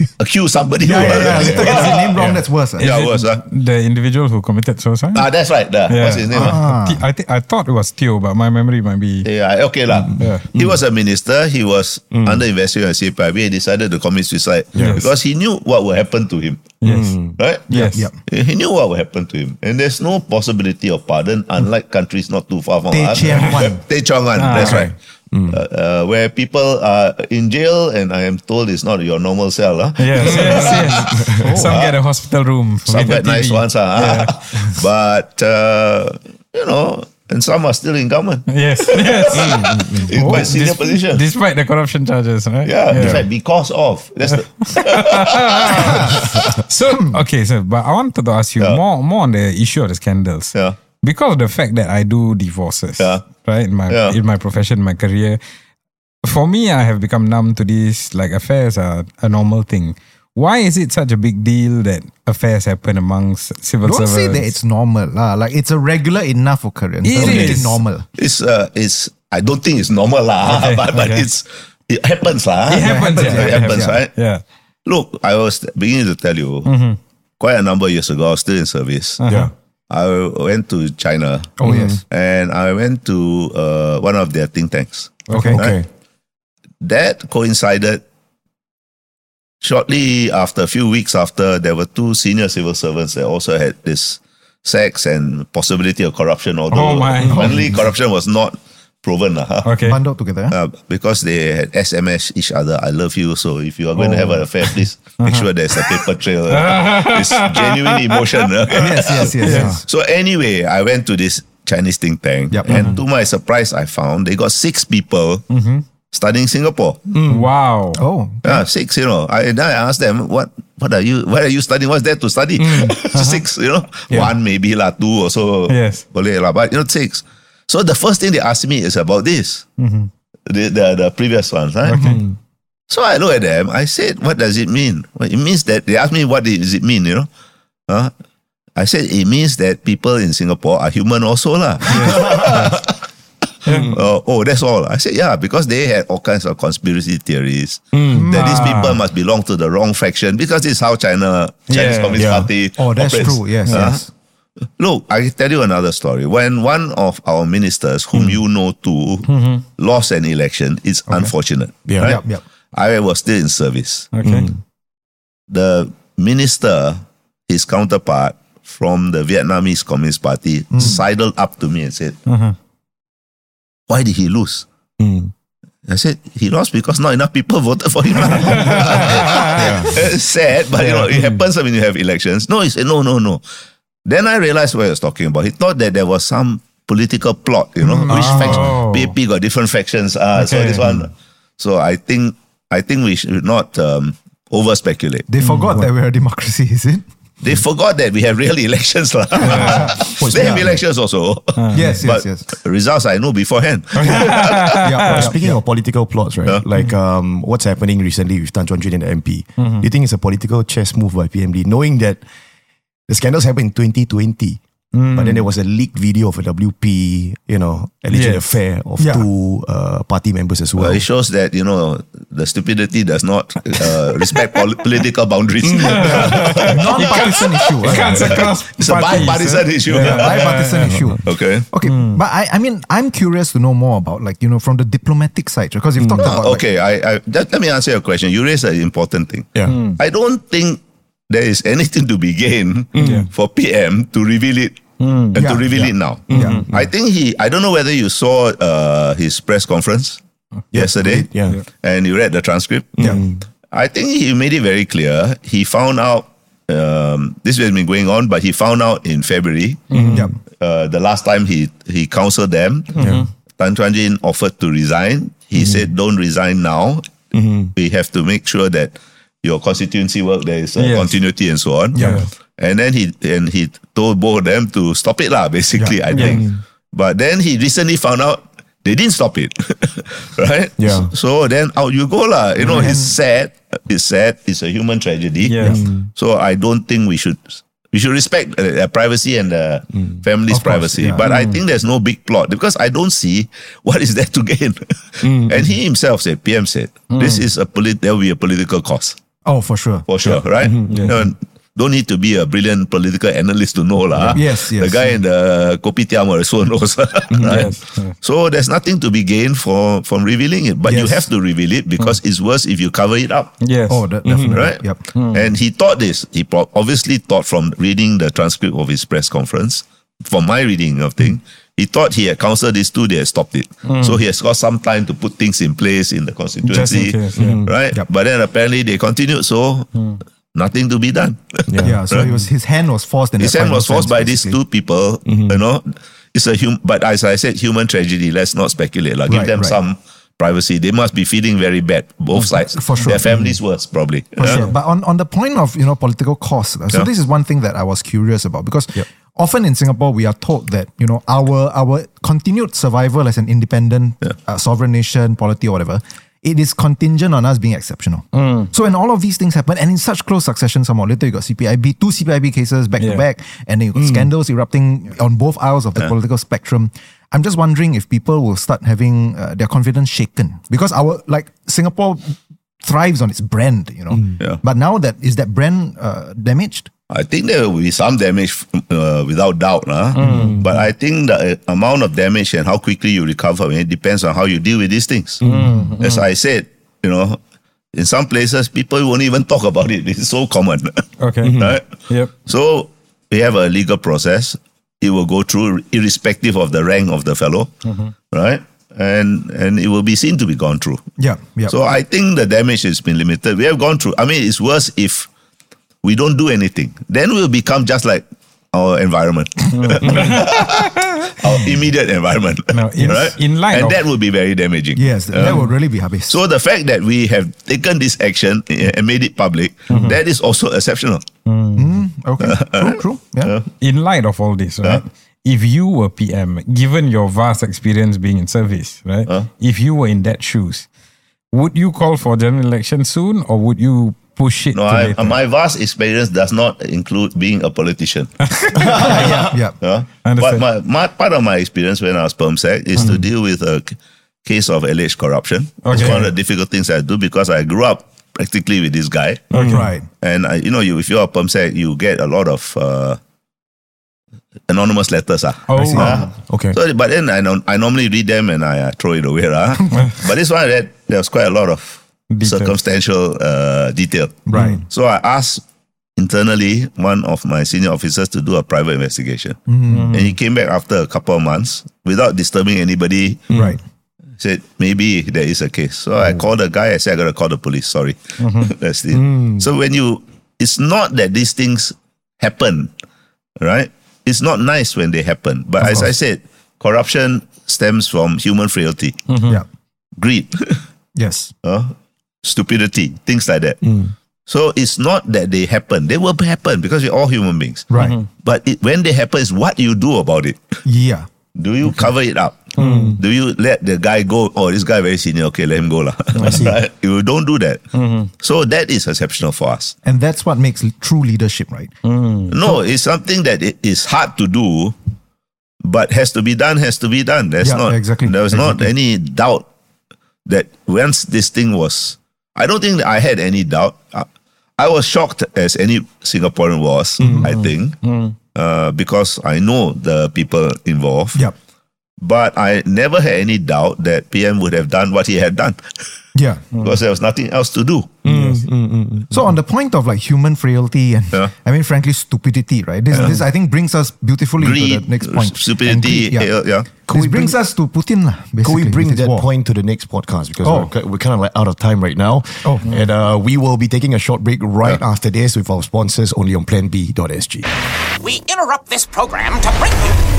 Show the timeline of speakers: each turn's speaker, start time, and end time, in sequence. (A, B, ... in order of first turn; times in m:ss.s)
0:00.2-0:02.2 A
0:00.8-0:03.0 B
0:01.1-0:02.4 C
0:02.8-0:03.4 A
0:02.8-0:05.3 D
0:05.1-0:06.6 A
0:05.9-0:09.3 D
0:06.3-0:07.0 B
0:09.2-0:16.8 A
0:09.9-0:10.8 C
0:10.2-0:10.5 D
0:12.1-0:12.4 C
0:14.7-0:15.1 C
0:14.8-0:15.1 D
0:16.8-0:17.2 D
0:16.8-0:17.4 C
0:17.4-0:24.9 A
0:17.7-0:18.1 D
0:17.7-0:18.2 B
0:22.9-0:23.8 B
0:24.4-0:24.9 D
0:24.5-0:25.6 C
0:25.5-0:30.9 A
0:30.0-0:34.8 D
0:30.2-0:31.6 C
0:31.4-0:31.8 B
0:31.6-0:32.0 A
0:32.9-0:41.3 A
0:38.5-0:43.2 D
0:39.3-0:40.4 C
0:42.6-0:46.0 A
0:42.9-0:43.3 C
0:44.3-0:55.4 D
0:50.5-0:50.8 A
0:53.0-0:53.3 A
0:53.9-0:54.2 A
0:56.2-1:04.6 D
1:03.8-1:08.1 B
1:07.0-1:07.8 D
1:07.1-1:14.1 A
1:10.4-1:11.3 D
1:12.7-1:14.4 D
1:12.8-1:14.0 B
1:14.8-1:16.7 A
1:16.6-1:17.0 D
1:17.4-1:19.2 A
1:19.2-1:19.5 D
1:19.3-1:19.5 C
1:19.9-1:25.8 A
1:21.6-1:22.0 B
1:21.6-1:22.0 C
1:25.3-1:25.6 D
1:25.3-1:25.6 B
1:25.5-1:25.9 C
1:26.8-1:28.0 A
1:29.6-1:39.8 A
1:36.7-1:37.8 D
1:37.2-1:37.5 C
1:37.3-1:37.6 B
1:39.6-1:40.0 D
1:39.8-1:40.6 B
1:40.5-1:55.4 A
1:44.0-1:44.5 B
1:45.2-1:49.8 D
1:48.8-1:49.8 B
1:52.5-1:53.0 B
1:52.7-1:53.0 D
1:55.5-1:55.8 D
1:56.1-1:57.0 A
1:57.1-1:57.5 C
1:57.3-1:58.0 D
1:58.0-1:58.7 B
1:58.4-2:09.7 A
2:02.6-2:03.4 C
2:03.1-2:03.4 D
2:05.7-2:06.0 D
2:09.8-2:10.1 D
2:10.5-2:12.0 A
2:11.9-2:12.4 C
2:12.0-2:12.2 D
2:12.9-2:17.3 A
2:18.8-2:23.0 A
2:21.9-2:22.3 D
2:23.7-2:23.9 D
2:23.7-2:24.1 C
2:23.9-2:34.1 A
2:27.9-2:28.3 C
2:28.1-2:28.8 B
2:28.3-2:29.0 D
2:31.7-2:32.2 D
2:32.1-2:32.5 C
2:32.8-2:34.1 B
2:33.6-2:33.9 D
2:34.8-2:42.2 A
2:38.1-2:38.4 C
2:39.2-2:39.6 D
2:41.1-2:41.3 B
2:41.9-2:42.2 C
2:42.0-2:42.4 B
2:42.7-2:44.1 A
2:44.1-2:44.5 D
2:44.2-2:44.6 C
2:45.5-2:52.2 A
2:50.7-2:51.0 B
2:52.3-2:52.6 D
2:53.9-2:54.6 A
2:55.0-2:55.3 C
2:55.9-3:03.4 A
2:58.4-2:59.7 D
2:59.6-3:00.0 C
3:00.8-3:01.2 D
3:01.1-3:01.4 C
3:04.0-3:15.3 A
3:07.8-3:08.7 B
3:08.0-3:09.1 D
3:10.4-3:11.0 D
3:15.3-3:17.0 B
3:15.4-3:15.8 D
3:17.4-3:24.9 A
3:19.4-3:20.8 B
3:19.4-3:20.0 D
3:20.2-3:20.8 C
3:21.6-3:22.0 D
3:21.7-3:22.5 B
3:24.0-3:25.4 D
3:24.8-3:25.6 B
3:25.1-3:32.2 C
3:29.6-3:29.9 D
3:33.1-3:34.6 C
3:34.9-3:35.5 D
3:35.1-3:41.0 C
3:38.1-3:38.6 D
3:39.0-3:39.3 B
3:40.8-3:47.3 A
3:45.6-3:46.4 C
3:45.9-3:51.0 D
3:46.4-3:48.3 B
3:48.1-3:50.4 A
3:50.0-3:56.6 B
3:51.2-3:51.7 A
3:51.8-3:52.2 D
3:56.0-3:56.4 C
3:56.2-4:10.2 A
3:59.6-3:59.8 C
3:59.7-4:00.0 D
4:02.9-4:03.3 C
4:03.0-4:03.3 D
4:05.0-4:05.4 D
4:05.4-4:06.6 B
4:05.8-4:06.9 C
4:06.4-4:06.6 D
4:10.7-4:11.6 C
4:10.8-4:13.2 A
4:11.0-4:11.6 D
4:13.0-4:13.4 C
4:13.7-4:22.9 A
4:19.9-4:20.2 D
4:19.9-4:20.3 C
4:22.9-4:23.3 D
4:23.0-4:23.3 C
4:23.6-4:27.2 A
4:25.6-4:25.9 C
4:27.3-4:27.7 C
4:27.8-4:59.2 A
4:30.8-4:31.2 D
4:31.9-4:32.3 B
4:32.0-4:32.3 D
4:35.8-4:36.0 B
4:36.1-4:36.4 D
4:36.2-4:36.6 C
4:40.8-4:41.1 C
4:42.6-4:43.2 B
4:45.4-4:45.8 D
4:45.6-4:46.1 C
4:50.5-4:51.2 B
4:51.2-4:51.6 D
4:55.2-4:55.8 C
4:57.1-4:57.5 D
4:59.4-5:00.4 B
5:00.1-5:13.5 A
5:00.6-5:01.3 C
5:00.9-5:01.2 D
5:04.3-5:05.2 B
5:07.3-5:07.6 C
5:07.5-5:08.1 D
5:10.8-5:11.3 B
5:13.6-5:14.2 D
5:13.9-5:15.0 B
5:14.2-5:14.7 C
5:14.4-5:29.9 A
5:15.1-5:15.5 D
5:23.8-5:24.2 D
5:26.6-5:27.6 D
5:27.4-5:27.7 C
5:30.0-5:30.2 D
5:30.5-5:32.3 A
5:31.7-5:32.5 C
5:31.8-5:34.6 B
5:33.4-5:44.7 A
5:35.2-5:35.6 C
5:39.3-5:39.8 B
5:42.3-5:43.5 B
5:43.3-5:43.6 C
5:44.4-6:16.9 B
5:44.4-5:44.7 D
5:58.3-5:58.7 D
6:04.0-6:04.3 C
6:17.1-6:25.4 A
6:20.2-6:20.7 D
6:20.2-6:20.8 C
6:25.4-6:25.9 C
6:25.4-6:26.3 D
6:26.0-6:27.4 A
6:27.9-6:31.0 A
6:31.2-6:32.4 D
6:31.4-6:31.8 C
6:31.6-6:37.8 A
6:37.8-6:38.1 D
6:38.3-6:41.0 A
6:41.2-6:41.7 B
6:41.7-6:45.3 A
6:46.0-6:55.6 A
6:49.7-6:50.5 D
6:50.1-6:50.4 C
6:52.7-6:54.0 D
6:55.0-6:56.4 B
6:55.4-6:55.6 D
6:56.3-7:01.3 A
6:59.9-7:00.2 D
7:01.4-7:02.0 D
7:01.8-7:03.5 B
7:02.4-7:03.7 A
7:03.8-7:10.9 D
7:11.5-7:15.4 D
7:14.7-7:18.3 A
7:18.4-7:19.3 D
7:18.8-7:19.8 B
7:18.9-7:19.2 A
7:19.8-7:33.2 A
7:20.2-7:20.6 D
7:23.0-7:23.3 C
7:25.8-7:26.3 D
7:29.5-7:29.9 C
7:29.5-7:29.8 D
7:29.6-7:30.1 B
7:34.7-7:45.6 A
7:35.7-7:36.2 D
7:35.7-7:36.2 B
7:36.0-7:36.8 C
7:42.3-7:42.8 D
7:44.5-7:44.8 B
7:44.5-7:44.8 C
7:46.2-7:49.6 A
7:49.7-7:50.2 B
7:49.9-7:50.4 D
7:50.1-7:53.5 A
7:53.5-7:53.8 C
7:53.5-7:53.8 B
7:54.4-8:02.9 A
7:58.4-7:58.7 D
7:59.1-7:59.7 C
8:03.6-8:09.2 A
8:05.8-8:06.1 B
8:09.3-8:09.6 D
8:10.2-8:10.8 A
8:11.2-8:11.5 B
8:11.6-8:11.9 A
8:12.4-8:13.8 A
8:13.8-8:14.1 C
8:14.5-8:20.8 A
8:17.9-8:18.2 B
8:17.9-8:18.3 D
8:20.8-8:21.3 B
8:21.6-8:27.8 A
8:21.8-8:22.1 C
8:22.8-8:23.1 D
8:22.8-8:23.2 C
8:26.3-8:26.8 D
8:26.4-8:26.8 C
8:27.9-8:28.3 D
8:28.4-8:30.0 A
8:30.0-8:31.9 B
8:32.0-8:32.6 D
8:32.5-8:35.0 A
8:35.8-8:39.7 A
8:37.6-8:38.9 B
8:40.5-8:44.3 A
8:44.8-8:48.0 A
8:47.2-8:47.5 B
8:47.3-8:48.4 D
8:48.5-8:51.4 A
8:52.2-8:55.8 A
8:56.4-8:56.6 B
8:56.7-8:57.0 D
8:56.8-8:58.3 A
8:58.2-8:59.4 C
8:58.3-8:58.7 D
8:59.3-9:06.5 B
9:03.1-9:03.4 A
9:04.6-9:07.1 A
9:07.1-9:09.5 B
9:07.1-9:07.6 C
9:08.6-9:17.7 C
9:10.6-9:10.9 B
9:12.6-9:12.9 B
9:18.2-9:20.2 E